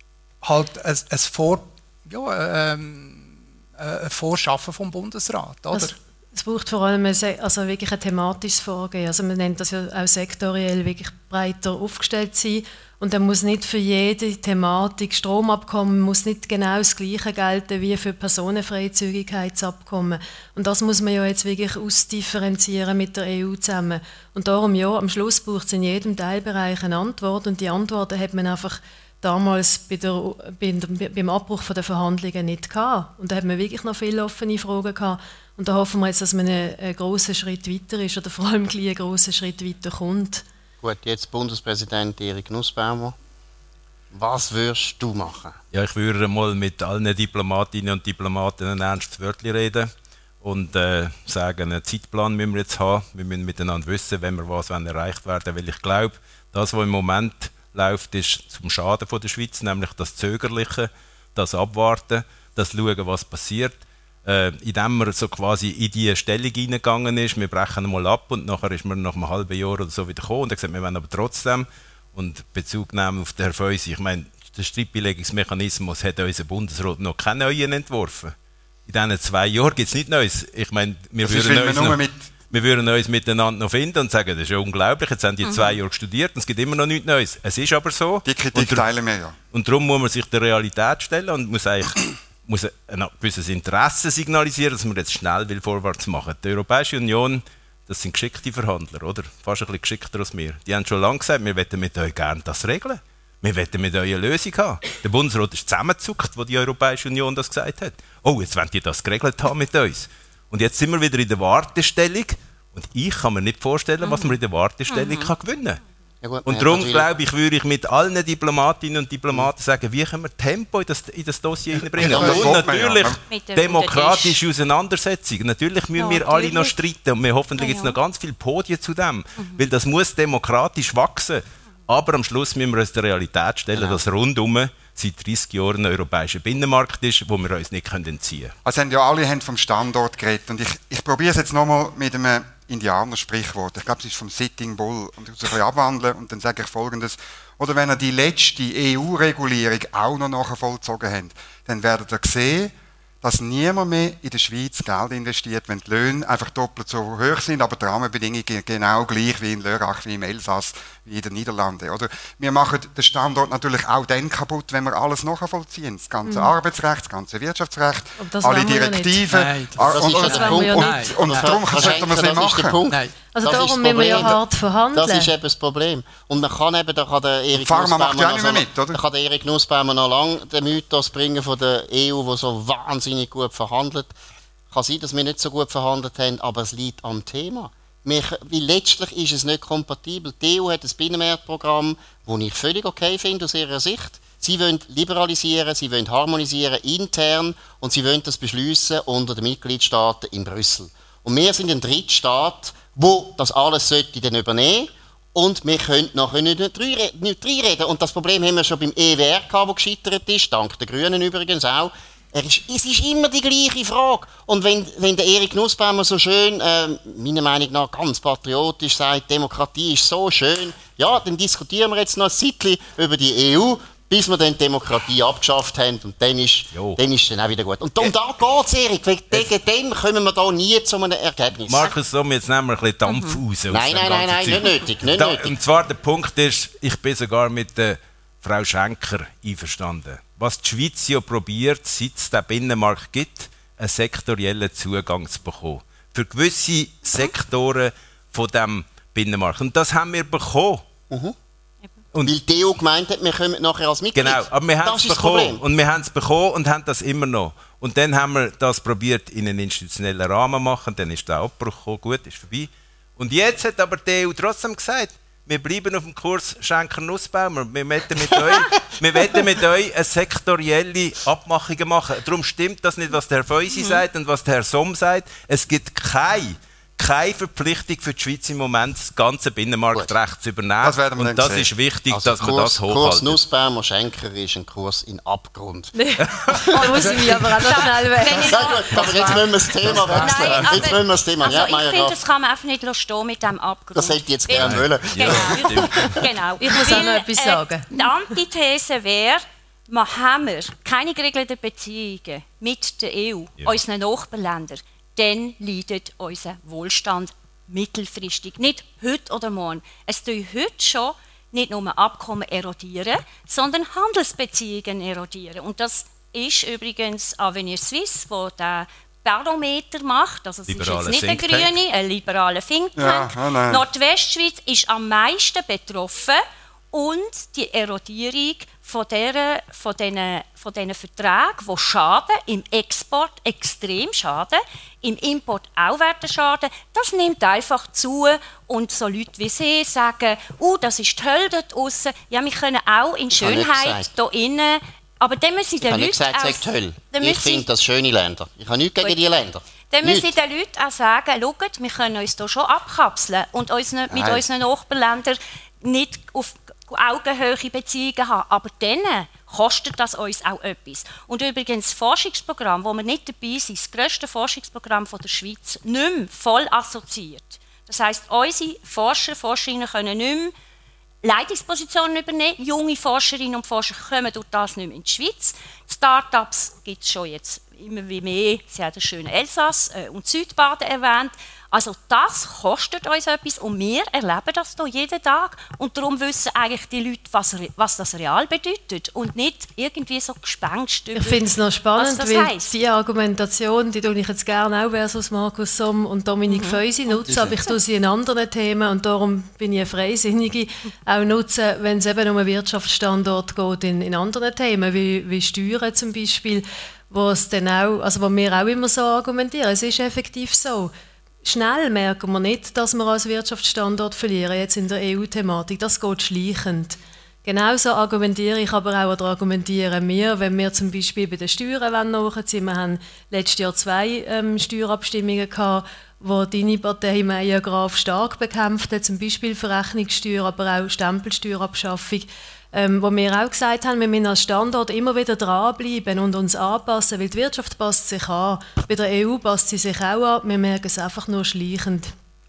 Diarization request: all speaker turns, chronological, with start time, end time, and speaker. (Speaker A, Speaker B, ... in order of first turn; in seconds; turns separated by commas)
Speaker A: 0.4-6.0, Speaker B: 5.7-40.4, Speaker C: 40.8-43.2, Speaker C: 44.1-45.6, Speaker D: 45.7-49.9, Speaker D: 50.4-78.3, Speaker D: 78.9-88.8, Speaker E: 81.2-82.2, Speaker F: 85.4-85.8, Speaker E: 88.3-89.4, Speaker D: 89.5-115.8, Speaker F: 114.0-114.4, Speaker F: 114.9-115.3, Speaker C: 116.2-117.1, Speaker D: 116.5-138.5, Speaker E: 122.0-123.2, Speaker C: 122.0-122.6, Speaker F: 123.3-124.4, Speaker F: 126.0-126.8, Speaker F: 127.6-128.0, Speaker F: 129.4-129.6, Speaker C: 133.7-134.0, Speaker E: 138.7-172.8, Speaker B: 166.2-166.5, Speaker B: 168.2-169.3, Speaker A: 169.3-171.8, Speaker C: 169.9-174.4, Speaker B: 170.2-171.1, Speaker A: 172.9-173.2, Speaker B: 173.3-175.3, Speaker C: 174.9-184.1, Speaker E: 177.6-179.0, Speaker C: 184.7-231.9, Speaker D: 226.7-227.0, Speaker D: 231.7-250.8, Speaker F: 233.1-233.4, Speaker C: 233.7-235.6, Speaker C: 251.1-251.3, Speaker C: 252.2-255.6, Speaker D: 254.2-283.4, Speaker F: 273.8-274.0, Speaker E: 280.8-281.7, Speaker C: 282.1-285.9, Speaker B: 285.9-289.5, Speaker D: 286.2-287.2, Speaker F: 286.7-289.4, Speaker C: 288.5-292.2, Speaker D: 289.1-291.0, Speaker F: 290.0-326.4, Speaker C: 293.9-296.2, Speaker D: 294.5-296.2, Speaker B: 296.6-298.1, Speaker D: 320.7-321.7, Speaker E: 323.0-323.8, Speaker F: 326.9-347.7, Speaker C: 343.3-344.1, Speaker C: 345.8-350.3, Speaker F: 349.9-370.5, Speaker E: 354.1-354.4, Speaker F: 371.2-391.4, Speaker B: 391.2-410.9, Speaker F: 392.0-392.8, Speaker F: 396.5-397.6, Speaker B: 411.4-442.1